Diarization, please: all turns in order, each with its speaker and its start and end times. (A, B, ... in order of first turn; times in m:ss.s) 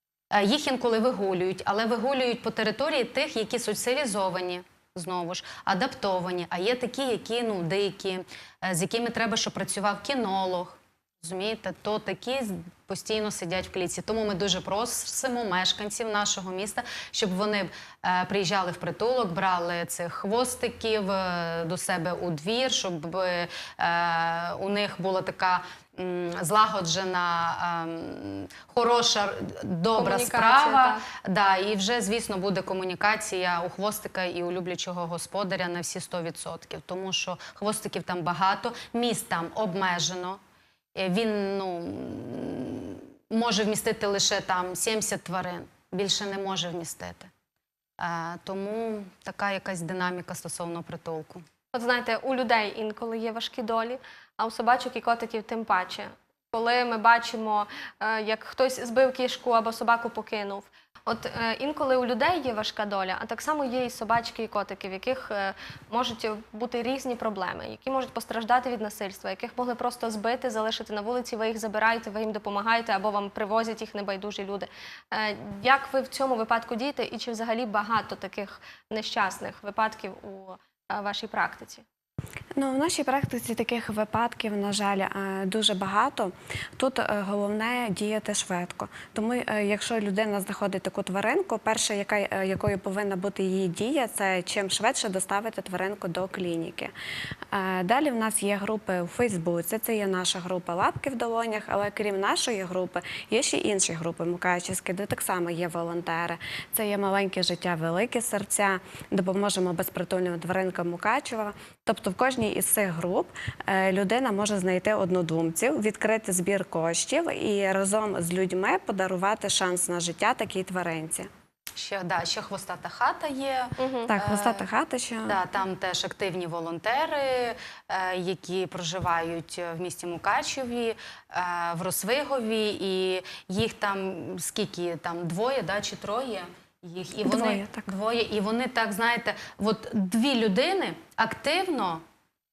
0:00.3-0:40.4 A
0:29.9-0:31.0 B
0:40.9-0:47.3 A
0:48.0-0:51.4 A
0:51.7-1:21.8 B
1:22.5-1:36.9 C
1:37.5-2:01.3 C
2:01.8-2:04.7 A
2:03.8-2:04.1 B
2:04.1-2:05.4 C
2:05.3-2:22.0 A
2:17.2-2:17.9 C